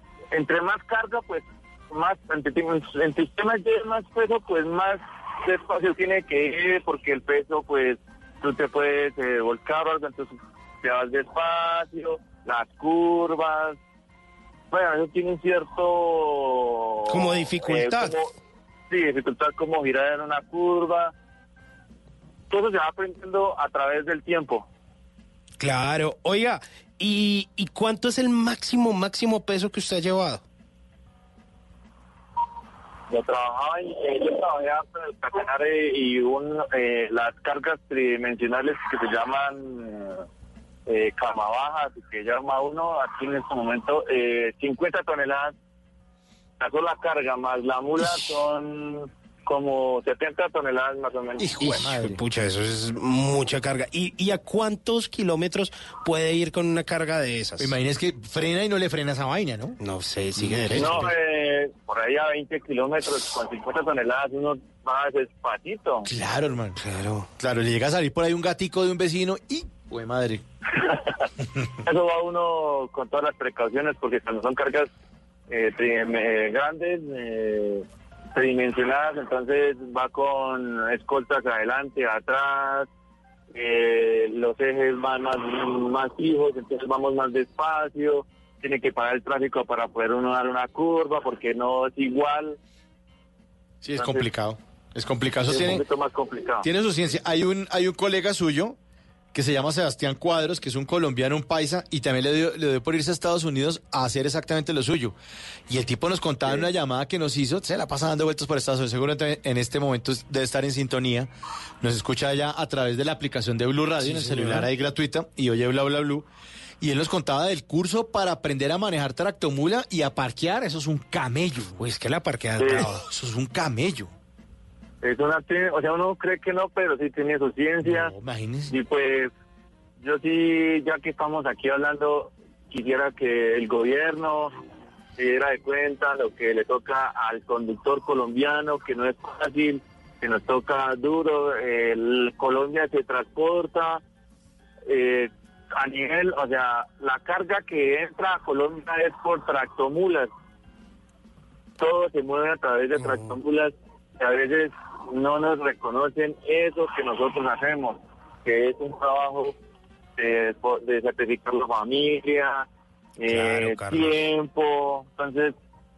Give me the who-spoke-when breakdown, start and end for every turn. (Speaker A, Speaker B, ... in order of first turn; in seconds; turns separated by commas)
Speaker A: 0.3-13.8, Speaker A: 14.7-18.3, Speaker B: 17.1-18.1, Speaker A: 18.9-21.1, Speaker A: 22.5-24.7, Speaker B: 25.6-30.4, Speaker A: 33.1-40.2, Speaker A: 40.9-45.5, Speaker A: 46.6-51.6, Speaker B: 51.4-57.7, Speaker C: 51.6-52.2, Speaker C: 57.6-59.8, Speaker B: 59.8-61.1, Speaker C: 60.4-61.1, Speaker A: 60.8-66.1, Speaker C: 66.0-66.8, Speaker B: 66.8-67.3, Speaker C: 67.4-70.4, Speaker A: 70.8-71.2, Speaker A: 71.8-74.9, Speaker A: 75.5-82.9, Speaker A: 83.5-92.6, Speaker C: 93.8-95.8, Speaker A: 94.0-94.2, Speaker A: 95.5-96.7, Speaker C: 96.6-98.8, Speaker C: 99.3-105.2, Speaker C: 105.7-111.3, Speaker C: 111.8-116.2, Speaker B: 114.0-114.7, Speaker C: 116.8-121.8, Speaker B: 121.8-123.0, Speaker A: 122.6-122.9, Speaker C: 122.8-124.1, Speaker A: 125.0-128.2, Speaker C: 127.9-128.7, Speaker A: 128.7-129.3, Speaker A: 130.0-134.5, Speaker A: 135.2-144.0, Speaker A: 144.9-150.3, Speaker A: 151.8-159.5, Speaker B: 153.0-153.4, Speaker A: 160.2-162.7, Speaker A: 163.2-165.6, Speaker B: 163.3-164.2